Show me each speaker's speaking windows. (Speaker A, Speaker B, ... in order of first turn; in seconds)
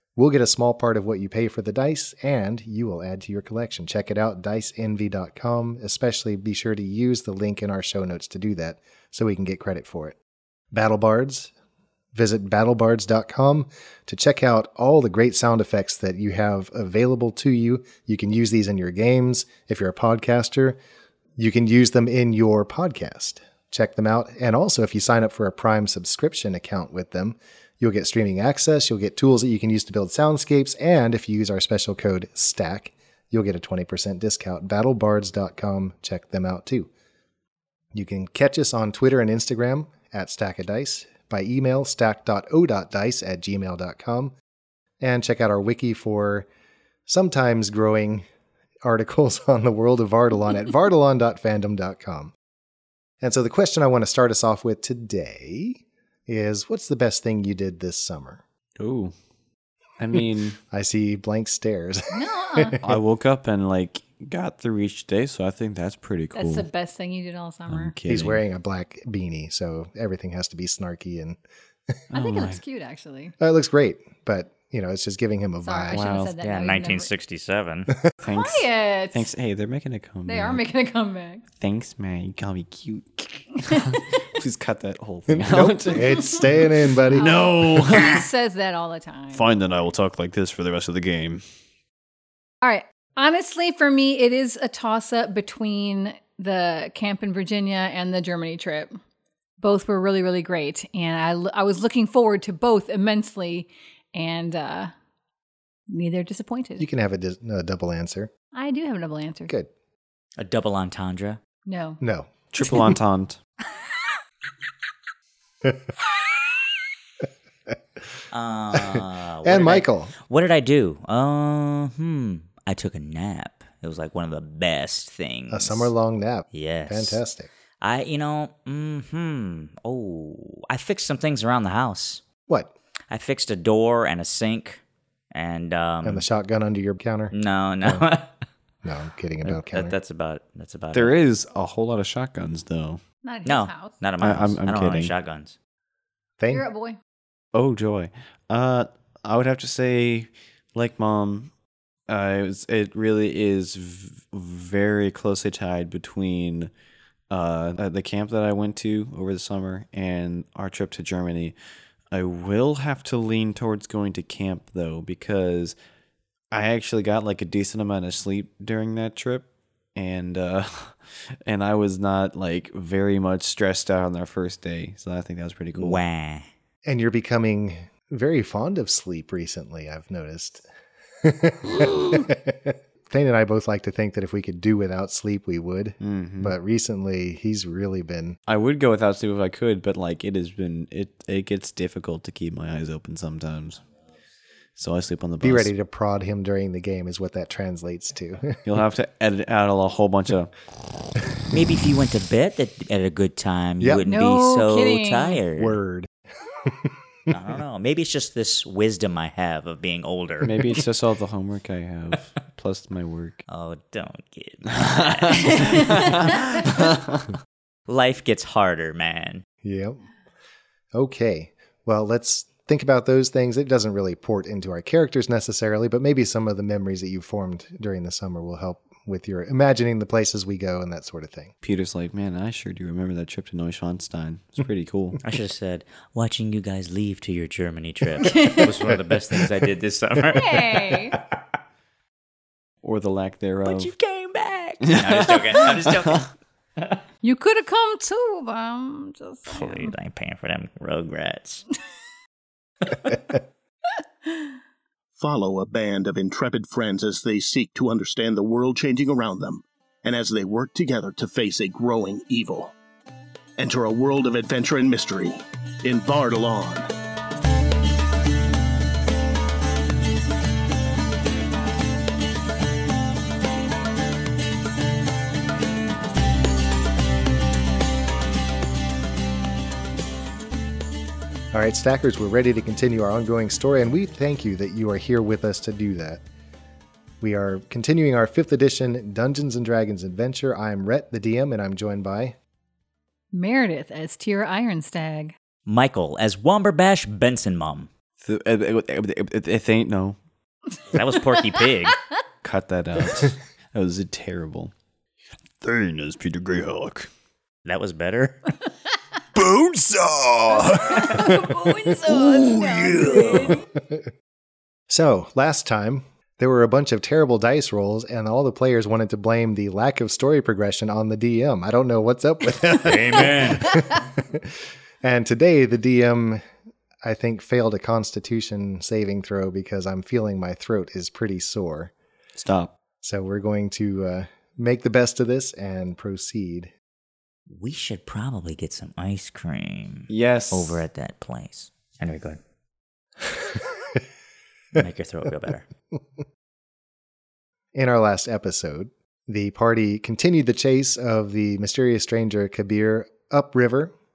Speaker A: 0.1-10.2, 10.7-11.5, 12.1-20.8, 21.4-36.9, 37.9-44.3, 45.0-46.5, 47.1-48.2, 48.8-52.3, 53.2-58.4, 60.7-62.8, 68.1-71.4, 73.4-76.0, 85.3-87.3, 106.8-108.3, 112.0-112.3, 118.7-120.1, 125.5-127.5, 136.0-138.1, 138.8-139.9, 146.4-146.7, 176.8-180.7, 181.2-188.4, 195.4-198.6, 205.6-206.1, 206.7-207.3, 219.6-220.0, 220.9-231.5, 281.5-286.2, 287.2-292.4, 310.6-311.2, 313.7-314.1, 314.9-326.4, 327.0-331.9, 333.0-336.7, 347.7-353.9
Speaker B: 58.8-59.1, 60.0-60.6, 62.8-66.7, 67.7-68.4, 72.1-72.6, 75.9-76.3, 78.2-80.6, 81.6-86.3, 87.1-88.2, 89.3-91.4, 112.5-113.4, 140.9-143.0, 144.2-145.1, 147.5-151.5, 152.1-156.7, 157.3-161.5, 162.1-165.8, 166.5-176.0, 186.0-186.5, 188.5-193.8, 194.8-195.7, 198.6-200.5, 210.4-213.4, 214.7-217.3, 231.6-235.2, 242.8-243.9, 244.8-246.2, 298.2-300.2, 302.4-304.7, 305.6-307.1, 322.8-323.7, 332.3-332.7, 340.1-340.8
Speaker C: 62.1-62.8, 66.3-67.9, 72.1-73.3, 75.6-77.1, 78.2-79.3, 80.3-81.4, 83.6-84.3, 87.1-89.5, 92.6-99.0, 99.6-104.9, 105.9-106.8, 108.5-109.5, 111.7-112.0, 143.2-144.0, 146.5-147.0, 204.1-205.4, 215.7-216.3, 238.2-238.9, 240.3-241.2, 247.2-249.9, 254.3-254.5, 293.3-295.3, 310.5-313.6
Speaker D: 76.4-77.9, 110.4-111.4, 118.3-125.9, 126.5-127.2, 127.8-132.2, 133.1-134.8, 135.3-136.2, 137.3-138.3, 139.5-141.1, 143.4-145.5, 175.8-176.5, 201.5-205.8, 207.3-210.8, 213.5-216.8, 217.9-219.4, 235.2-241.2, 243.6-247.0, 249.5-251.6, 295.6-297.9, 300.9-302.0, 307.6-308.5, 337.5-342.4, 344.7-345.6
Speaker E: 255.2-262.7, 263.6-266.9